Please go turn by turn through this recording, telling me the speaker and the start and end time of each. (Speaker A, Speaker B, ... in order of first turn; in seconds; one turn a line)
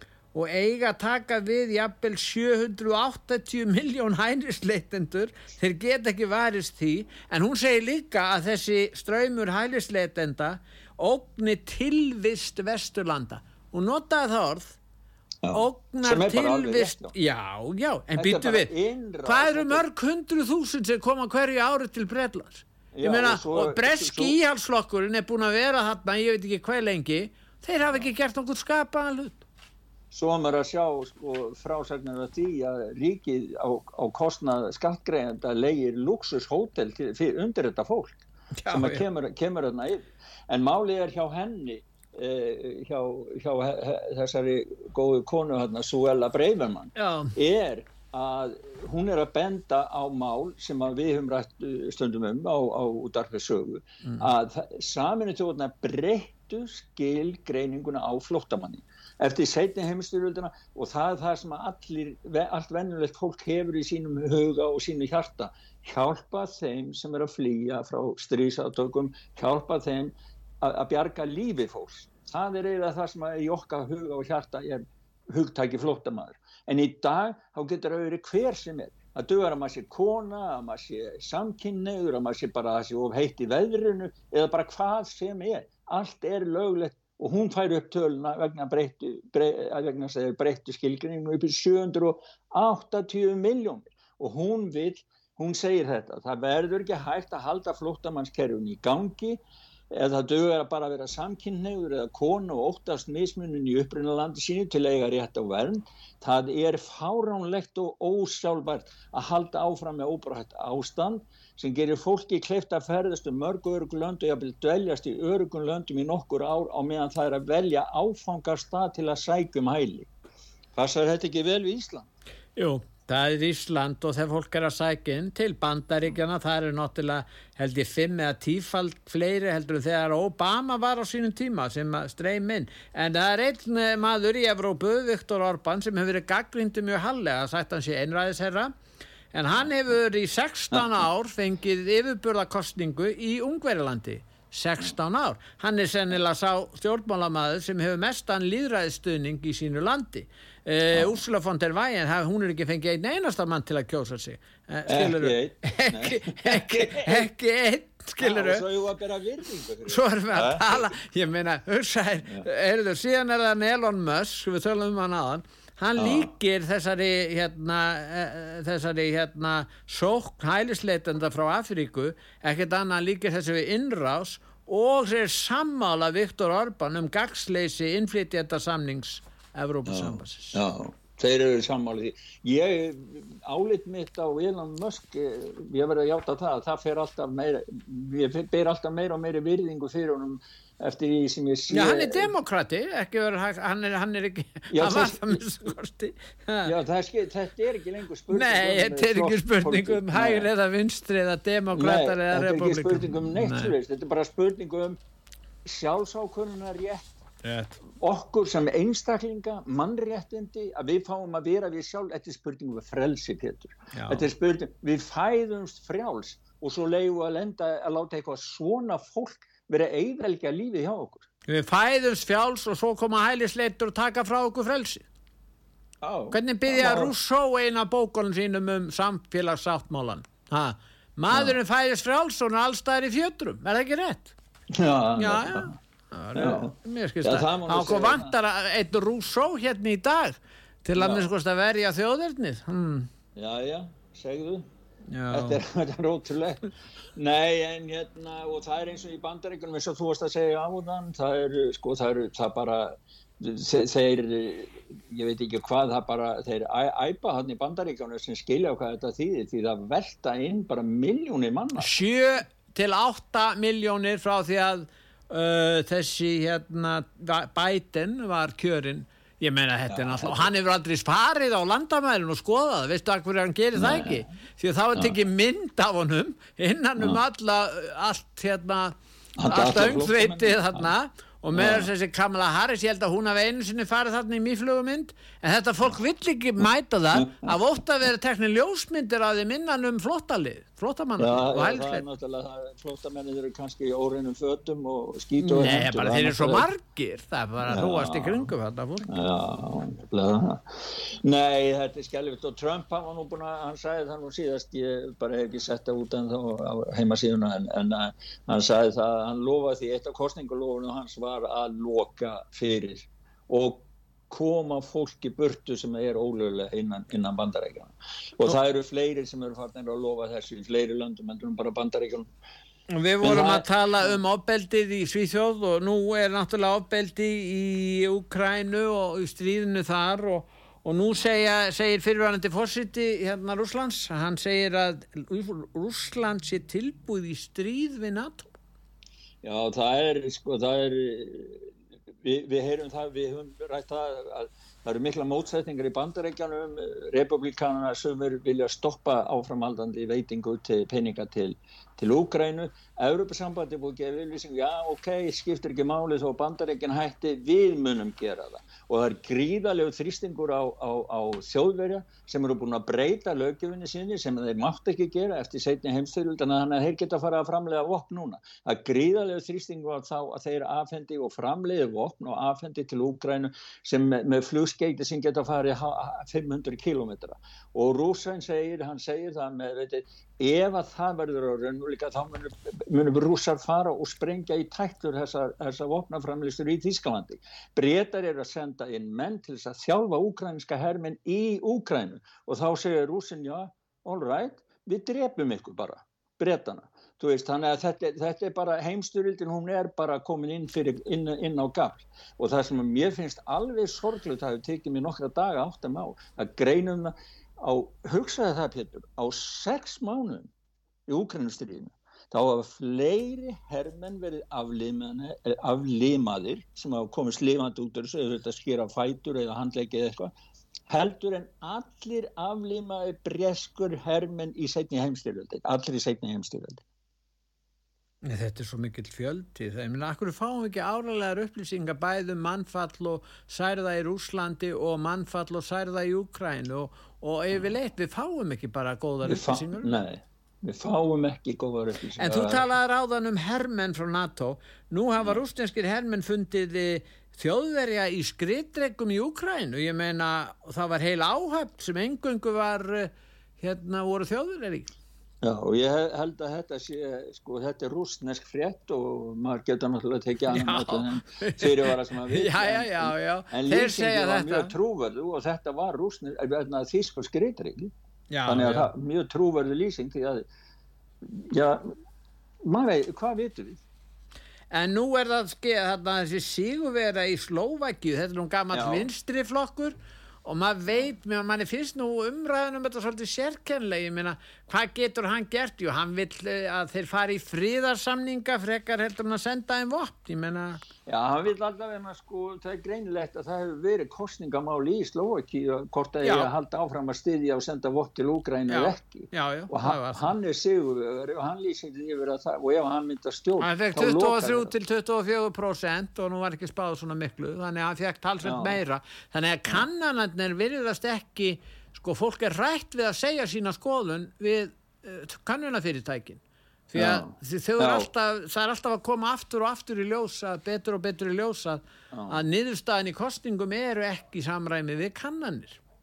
Speaker A: 0.3-14.8
Speaker B: 15.4-17.1
Speaker A: 15.5-18.7
Speaker B: 18.2-19.8
Speaker A: 19.2-29.4
Speaker B: 22.9-24.4
Speaker B: 30.1-99.4
Speaker A: 38.6-39.0
Speaker A: 47.0-47.3
Speaker B: 99.9-120.1
Speaker B: 120.7-122.1
Speaker A: 122.5-138.7
Speaker A: 139.3-158.6
Speaker B: 150.9-151.2
Speaker B: 154.9-157.3
Speaker B: 158.2-160.9
Speaker A: 159.9-180.6
Speaker B: 166.0-166.3
Speaker B: 179.9-192.3
Speaker A: 191.7-196.7
Speaker B: 194.7-195.4
Speaker B: 196.6-200.5
Speaker A: 198.3-203.7
Speaker B: 201.7-205.0
Speaker B: 205.6-207.1
Speaker A: 207.4-207.8
Speaker B: 208.0-221.3
Speaker A: 213.9-214.3
Speaker A: 221.5-225.0
Speaker B: 226.0-227.1
Speaker A: 226.3-234.3
Speaker B: 231.3-231.6
Speaker B: 234.7-235.7
Speaker A: 235.2-243.1
Speaker B: 236.3-238.3
Speaker B: 241.0-241.3
Speaker B: 243.3-244.7
Speaker A: 245.1-245.6
Speaker B: 245.3-246.6
Speaker B: 247.1-261.9
Speaker A: 261.8-278.9
Speaker B: 269.9-270.5
Speaker B: 273.7-274.3
Speaker B: 279.4-280.9
Speaker A: 279.5-292.0
Speaker B: 281.5-281.9
Speaker B: 287.1-287.5
Speaker B: 291.2-296.7
Speaker A: 295.4-299.1
Speaker B: 297.6-298.5
Speaker B: 299.1-322.3
Speaker A: 322.9-338.5
Speaker B: 323.2-324.2
Speaker B: 339.4-341.7
Speaker B: 342.2-410.5
Speaker B: 411.1-420.3
Speaker B: 420.9-426.8
Speaker A: 428.2-440.0
Speaker B: 439.2-442.6
Speaker A: 442.2-454.9
Speaker B: 455.4-467.9
Speaker A: 460.5-464.7
Speaker A: 468.3-468.9
Speaker B: 468.4-470.4
Speaker B: 471.2-471.9
Speaker B: 472.6-473.8
Speaker A: 474.7-490.8
Speaker B: 478.7-479.1
Speaker B: 491.1-504.7
Speaker A: 496.2-496.5
Speaker A: 498.7-500.3
Speaker A: 503.6-525.8
Speaker B: 508.4-508.8
Speaker B: 516.9-518.1
Speaker B: 522.1-522.4